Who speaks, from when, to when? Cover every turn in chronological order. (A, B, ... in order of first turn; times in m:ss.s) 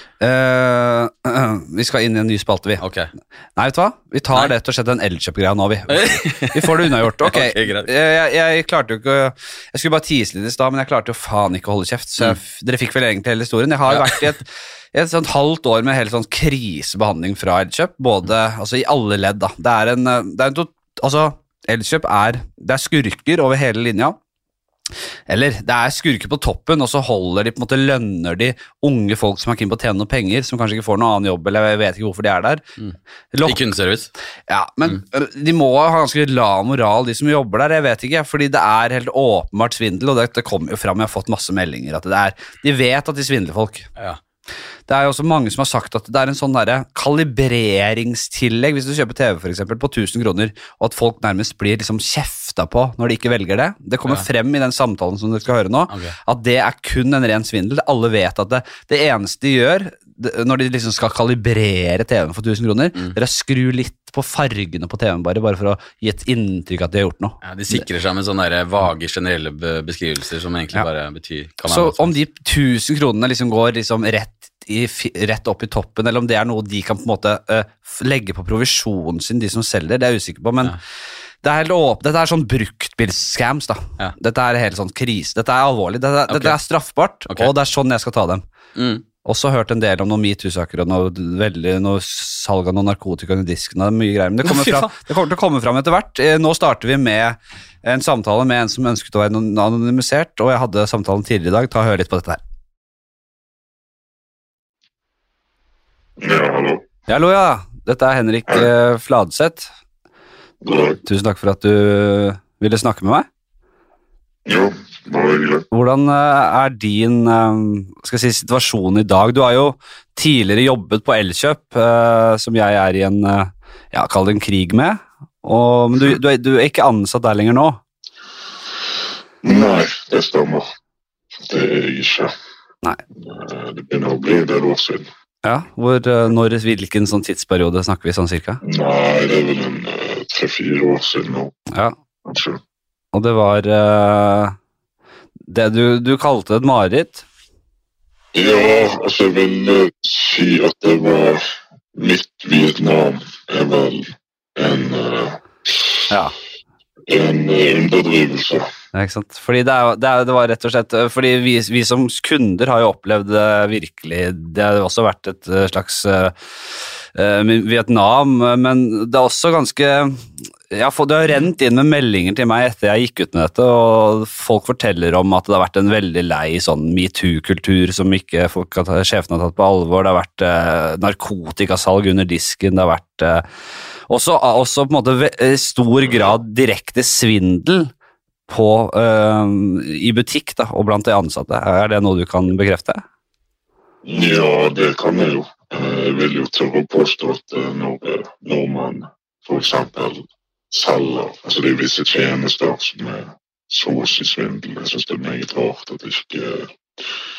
0:00.2-0:02.8 A
0:02.8-0:03.1 B
0:03.6-0:24.2 A
0:05.9-0:07.9 B
0:13.9-0:14.3 B
0:25.3-0:32.6 A
0:32.8-0:34.1 B
0:33.3-0:33.6 A
0:34.5-0:43.9 A
0:44.9-1:07.8 A
0:55.9-0:56.2 B
1:07.4-1:12.2 B
1:11.6-1:20.8 A
1:21.4-1:28.4 A
1:26.3-1:26.6 B
1:28.8-1:29.0 B
1:29.2-1:42.4 A
1:34.4-1:34.9 B
1:46.2-1:46.9 C
1:47.1-1:49.7 A
1:50.6-1:51.0 C
1:51.0-1:53.3 A
1:54.5-1:55.7 C
1:55.7-2:07.8 A
2:09.4-2:10.7 C
2:11.5-2:12.3 C
2:13.2-2:15.1 C
2:15.4-2:18.6 A
2:18.6-2:21.5 C
2:22.2-2:22.6 C
2:23.1-2:24.6 A
2:25.5-2:27.3 A
2:28.3-2:36.1 C
2:37.1-2:38.7 C
2:38.9-3:03.5 A
3:04.1-3:07.9 A
3:08.5-3:13.0 A
3:14.0-3:26.7 C